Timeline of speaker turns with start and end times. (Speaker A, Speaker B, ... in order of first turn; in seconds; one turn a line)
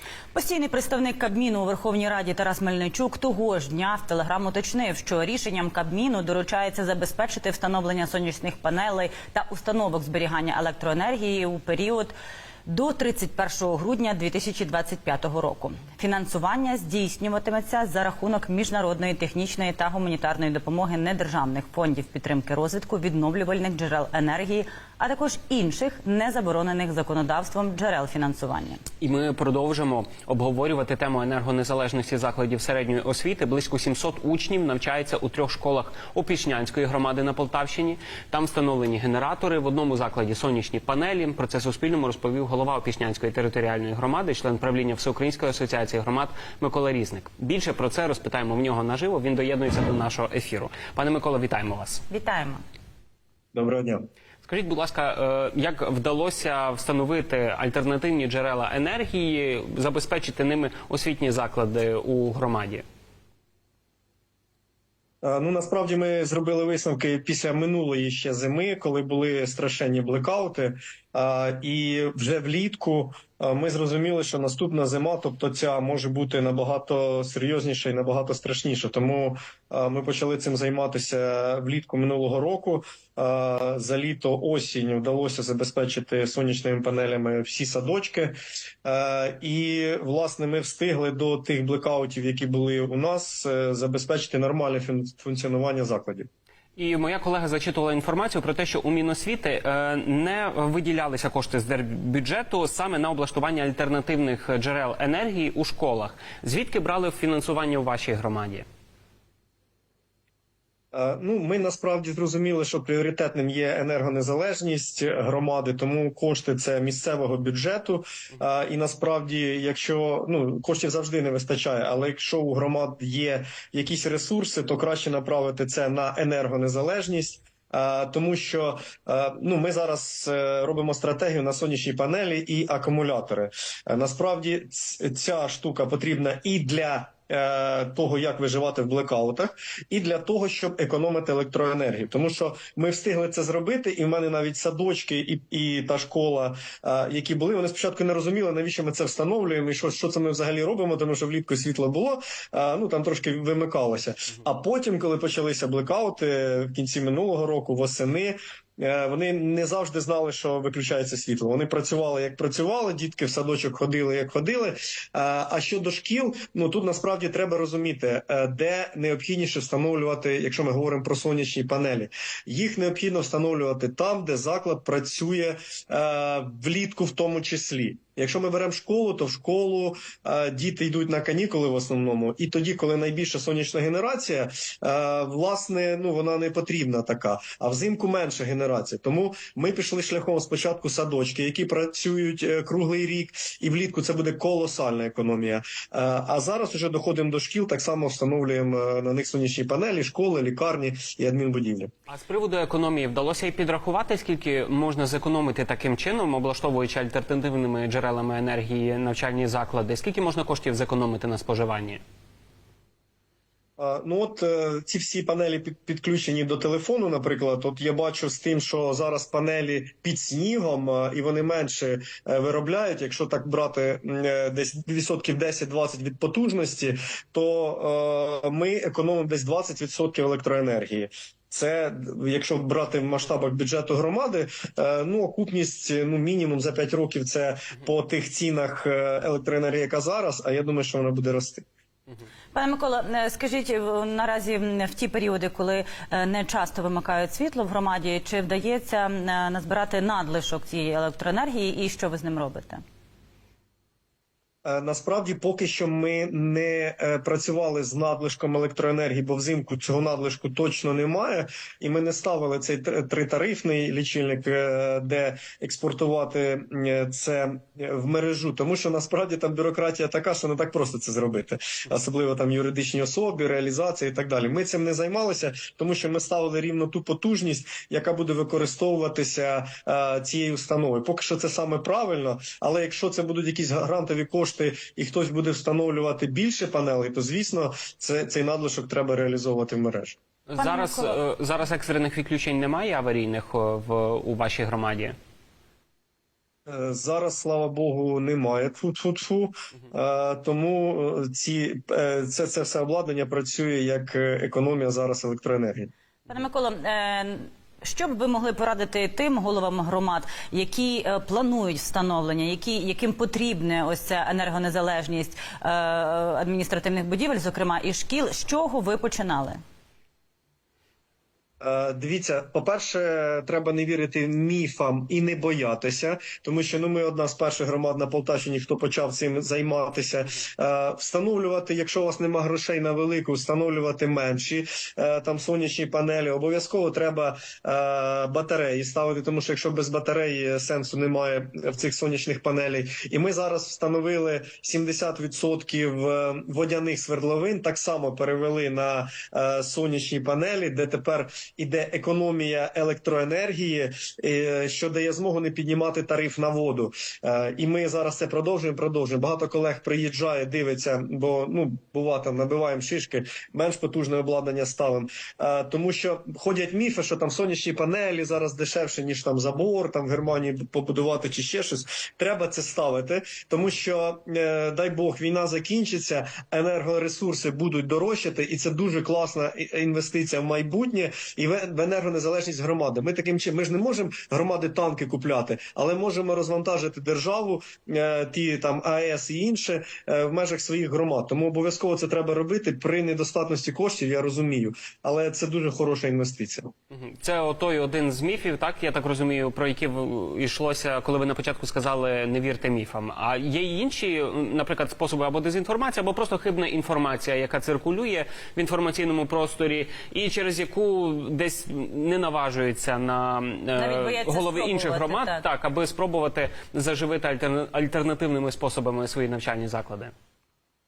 Speaker A: 0.3-12.1
Speaker A: 12.7-28.8
Speaker B: 29.0-52.0
Speaker A: 52.1-52.6
Speaker C: 53.5-54.1
Speaker B: 54.5-62.9
Speaker C: 65.2-96.3
Speaker B: 96.8-108.7
Speaker C: 110.9-201.9
Speaker B: 202.1-212.0
Speaker C: 213.8-241.7
Speaker A: 242.5-252.8
Speaker C: 254.7-290.2
Speaker B: 290.5-295.2
Speaker A: 290.6-291.2
Speaker C: 296.7-305.9
Speaker A: 306.3-319.6
Speaker C: 321.6-396.7
Speaker B: 396.9-420.1
Speaker A: 413.8-415.4